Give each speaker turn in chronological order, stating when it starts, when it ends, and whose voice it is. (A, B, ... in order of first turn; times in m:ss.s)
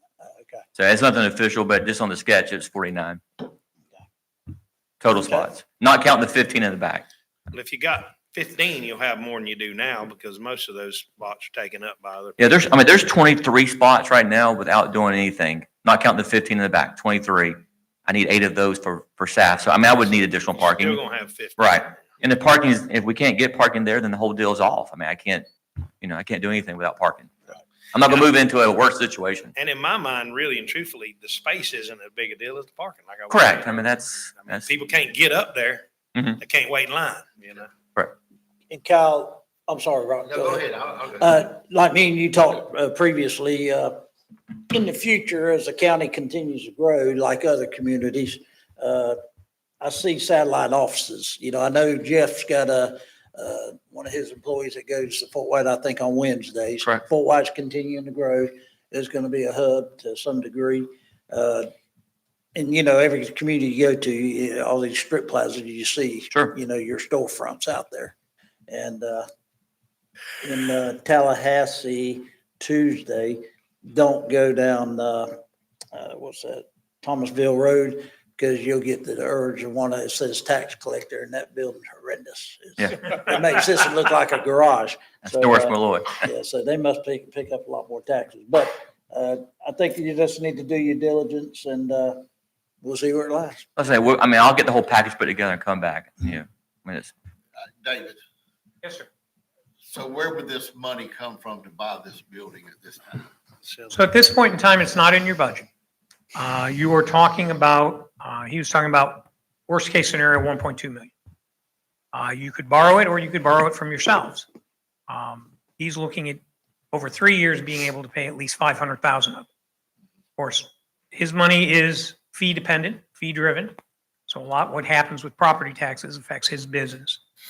0:00.2-0:00.6 A
0:00.8-0:03.2 B
0:05.0-0:07.1 B
0:07.5-0:12.4 C
0:12.4-0:21.0 B
0:20.4-0:21.8 C
0:21.6-0:25.5 B
0:26.0-0:27.3 B
0:27.9-0:29.5 B
0:29.6-0:35.8 C
0:33.3-0:34.6 B
0:36.4-0:37.7 C
0:38.7-0:44.0 A
0:40.3-0:41.2 D
0:44.7-0:49.2 A
0:49.8-1:01.7 A
1:02.6-1:08.1 A
1:08.7-1:09.2 A
1:10.4-1:15.3 A
1:15.9-1:32.2 A
1:25.3-1:26.3 B
1:32.8-1:33.7 A
1:33.8-1:37.1 B
1:37.8-1:38.2 D
1:38.8-1:39.1 E
1:39.9-1:43.3 D
1:43.9-1:45.7 E
1:46.4-1:51.1 E
1:52.1-1:54.5 E
1:55.1-1:59.5 E
2:00.4-2:03.8 E
2:04.3-2:07.2 E